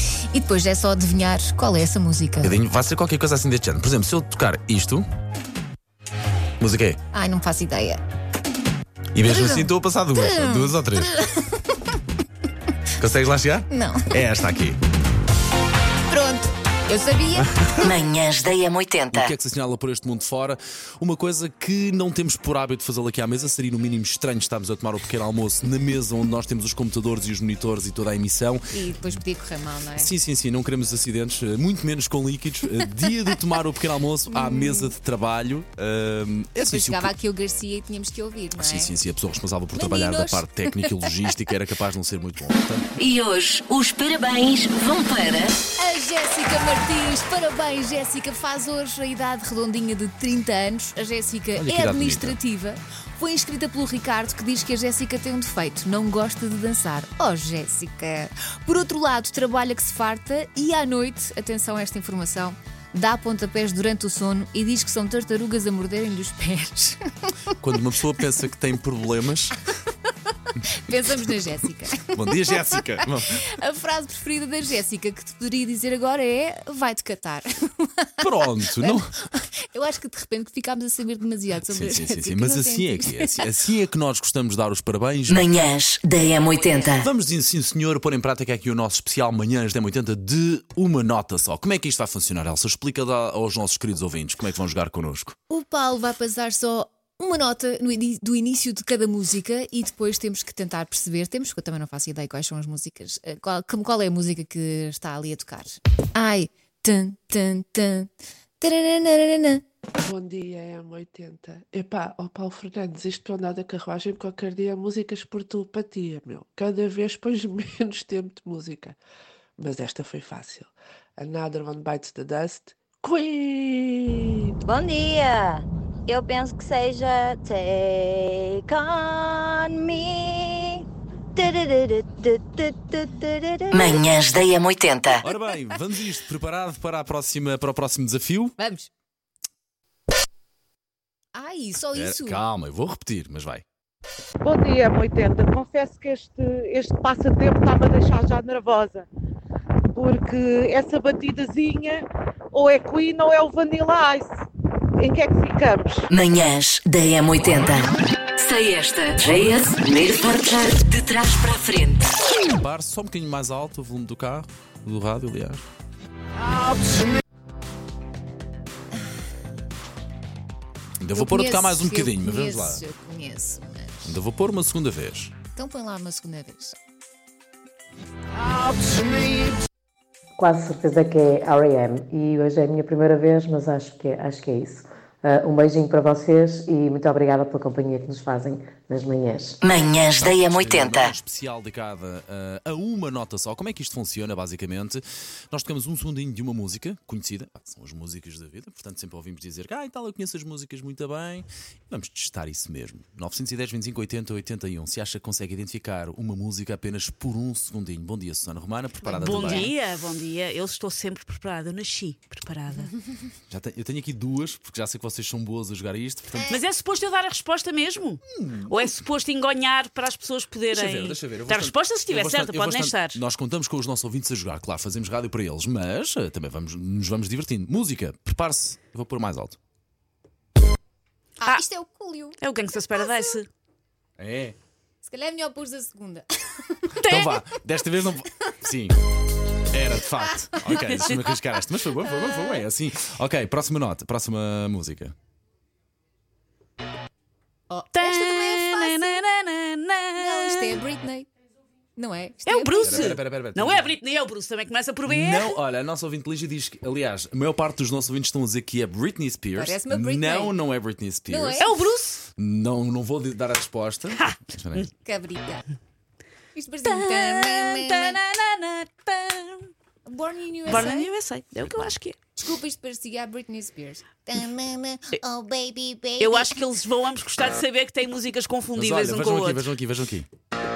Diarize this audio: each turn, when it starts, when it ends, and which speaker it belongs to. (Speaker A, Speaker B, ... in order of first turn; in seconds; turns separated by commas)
Speaker A: 0.3-2.6, Speaker B: 2.4-5.0, Speaker B: 6.6-7.0, Speaker A: 7.1-8.0, Speaker B: 9.1-11.1, Speaker A: 9.3-11.4, Speaker B: 13.0-14.8, Speaker A: 13.7-14.2, Speaker A: 16.1-17.5, Speaker B: 17.4-17.9, Speaker C: 17.8-19.3, Speaker B: 19.1-28.7, Speaker A: 28.7-30.1, Speaker B: 30.0-37.1, Speaker A: 34.3-34.9, Speaker A: 36.6-38.9, Speaker B: 38.6-42.9, Speaker A: 39.7-41.1, Speaker C: 43.0-45.6, Speaker A: 45.8-67.3, Speaker B: 51.6-52.4, Speaker B: 67.6-69.7, Speaker A: 70.8-83.5, Speaker B: 72.1-73.4, Speaker B: 78.2-79.2, Speaker B: 81.6-85.6, Speaker C: 85.3-87.1, Speaker B: 87.0-95.3, Speaker A: 95.5-109.6, Speaker D: 110.0-119.0, Speaker D: 119.6-124.5, Speaker E: 124.6-134.1, Speaker C: 133.7-135.2, Speaker B: 135.2-138.6, Speaker A: 138.6-138.9, Speaker A: 141.3-142.4, Speaker B: 141.9-143.7, Speaker F: 144.4-149.1, Speaker F: 149.9-154.3, Speaker F: 155.0-156.0, Speaker C: 156.1-157.9, Speaker C: 158.4-162.1, Speaker B: 162.3-165.6, Speaker B: 171.0-172.8, Speaker A: 171.1-174.2, Speaker B: 174.1-175.4, Speaker A: 175.5-176.8, Speaker G: 180.4-189.6, Speaker C: 189.6-191.1, Speaker B: 190.1-209.8, Speaker A: 209.1-209.7, Speaker H: 209.1-212.9, Speaker B: 213.5-216.6, Speaker H: 216.5-223.2, Speaker B: 218.3-218.9, Speaker B: 220.7-229.6, Speaker A: 231.4-232.4, Speaker H: 232.4-233.5, Speaker A: 232.9-233.4, Speaker B: 234.2-234.6, Speaker A: 235.0-236.8, Speaker H: 237.0-237.4, Speaker B: 237.0-239.0, Speaker B: 239.7-245.1, Speaker A: 247.7-249.2, Speaker H: 247.9-250.8, Speaker A: 250.2-251.3, Speaker A: 251.9-253.2, Speaker H: 252.5-255.6, Speaker B: 252.8-253.9, Speaker B: 255.1-261.6, Speaker A: 259.6-260.6, Speaker A: 261.3-261.8, Speaker H: 261.6-262.2, Speaker B: 262.3-264.9, Speaker A: 265.0-265.6, Speaker A: 266.5-268.2, Speaker H: 266.8-269.7, Speaker A: 270.1-271.1, Speaker H: 270.7-272.2, Speaker A: 272.4-276.6, Speaker H: 276.2-279.7, Speaker B: 278.7-280.3